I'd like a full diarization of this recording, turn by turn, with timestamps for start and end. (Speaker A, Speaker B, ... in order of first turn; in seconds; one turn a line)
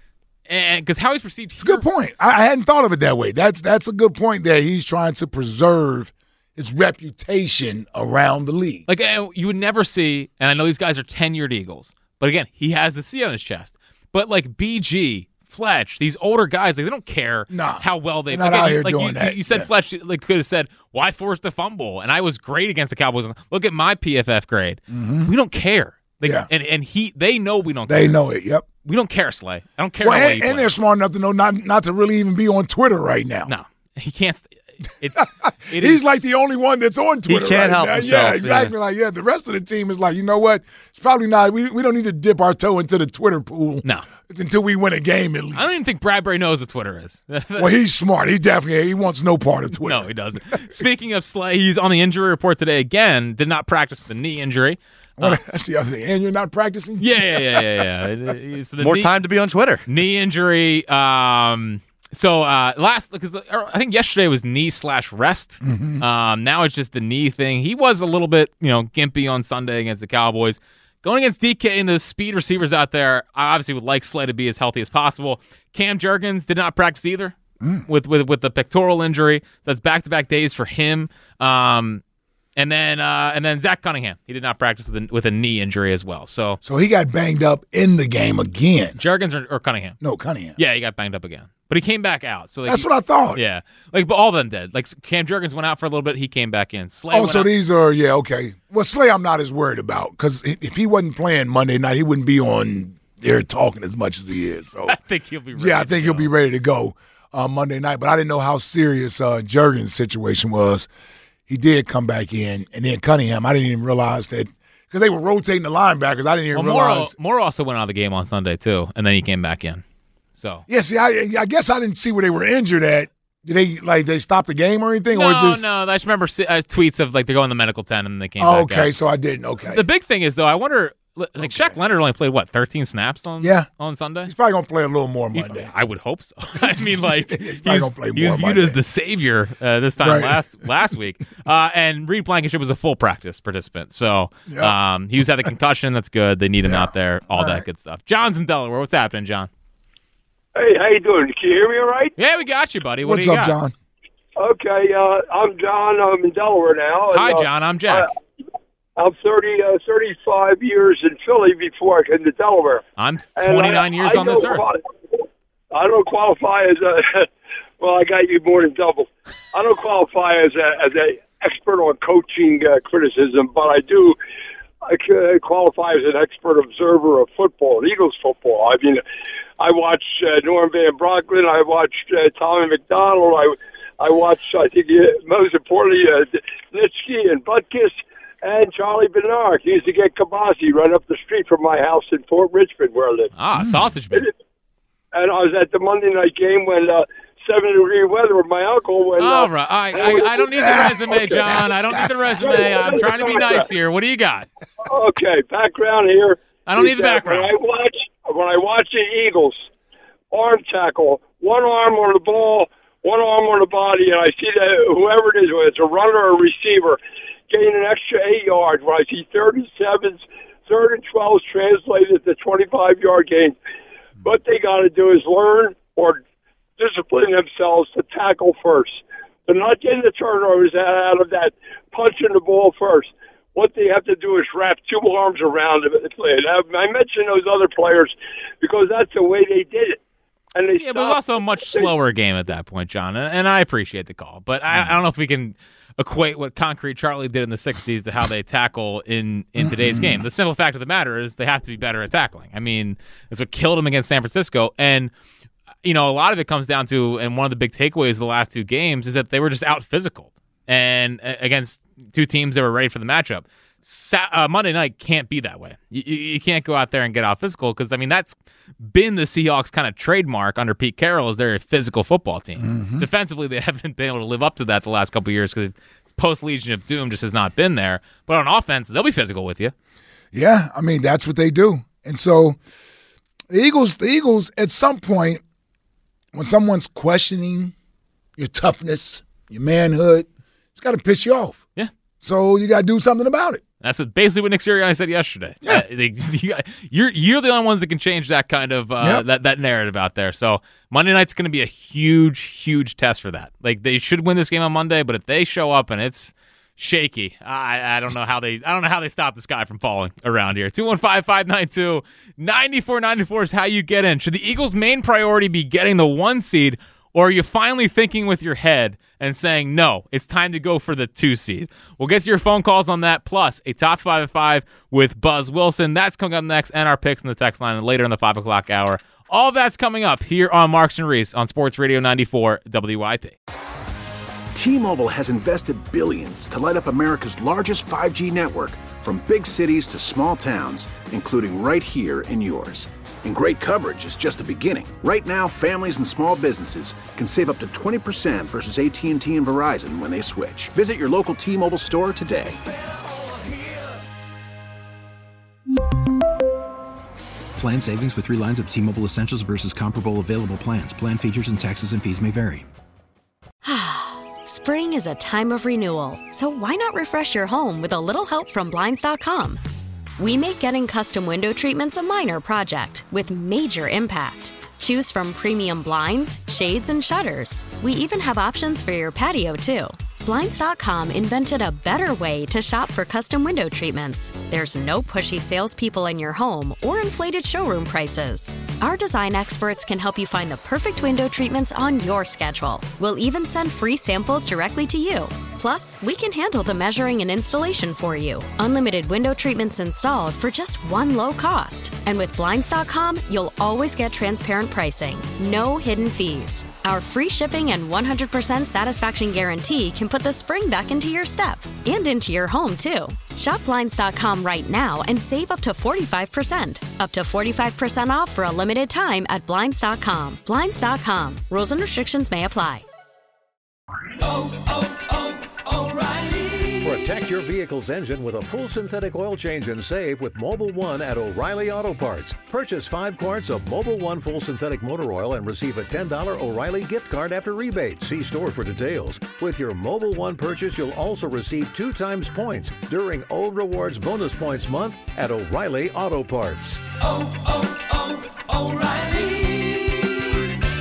Speaker A: 0.5-1.8
Speaker B: 1.6-8.8
Speaker A: 8.9-28.2
Speaker B: 17.5-19.7
Speaker B: 24.9-25.3
Speaker B: 26.2-26.5
Speaker B: 27.9-28.7
Speaker A: 28.8-30.7
Speaker B: 30.0-33.5
Speaker A: 33.5-36.2
Speaker B: 35.7-45.8
Speaker C: 37.3-38.7
Speaker A: 45.5-47.7
Speaker B: 47.5-50.8
Speaker A: 49.8-55.4
Speaker B: 55.2-57.8
Speaker A: 57.0-59.1
Speaker C: 58.8-59.9
Speaker A: 59.9-77.3
Speaker B: 65.6-66.0
Speaker B: 77.6-77.8
Speaker A: 77.9-82.0
Speaker A: 82.5-86.6
Speaker B: 86.6-89.0
Speaker A: 89.0-90.0
Speaker B: 90.0-90.6
Speaker A: 90.6-97.5
Speaker B: 92.7-93.4
Speaker B: 97.1-105.0
Speaker A: 104.9-106.3
Speaker B: 105.5-110.9
Speaker B: 111.5-117.1
Speaker A: 116.5-119.8
Speaker A: 120.4-120.6
Speaker B: 120.7-125.6
Speaker A: 125.1-128.9
Speaker B: 128.4-129.8
Speaker A: 129.7-134.3
Speaker B: 131.4-131.8
Speaker B: 133.4-133.7
Speaker B: 134.2-135.7
Speaker A: 135.3-149.5
Speaker B: 136.6-138.8
Speaker B: 140.0-140.4
Speaker B: 144.5-144.7
Speaker B: 146.6-147.6
Speaker D: 150.5-152.1
Speaker A: 152.2-153.6
Speaker B: 153.0-153.7
Speaker D: 154.4-158.1
Speaker A: 157.1-158.1
Speaker D: 158.9-162.8
Speaker A: 163.0-164.7
Speaker D: 163.3-164.8
Speaker D: 165.7-174.2
Speaker D: 174.8-179.0
Speaker D: 179.6-193.3
Speaker A: 193.3-194.3
Speaker D: 195.1-203.7
Speaker A: 199.2-204.5
Speaker B: 200.6-201.4
Speaker D: 204.8-209.7
Speaker A: 206.7-207.5
Speaker D: 210.3-223.6
Speaker D: 224.2-226.2
Speaker D: 226.8-240.0
Speaker D: 240.5-241.9
Speaker A: 240.8-255.1
Speaker B: 249.6-250.2
Speaker A: 255.8-279.7
Speaker B: 272.6-273.1
Speaker B: 280.3-282.6
Speaker B: 283.5-285.4
Speaker B: 286.3-287.7
Speaker B: 288.4-291.6
Speaker B: 292.2-293.6
Speaker A: 293.8-333.4
Speaker E: 334.5-352.6
Speaker F: 357.6-362.6
Speaker G: 363.6-369.6
Speaker G: 370.2-422.8
Speaker H: 426.7-446.8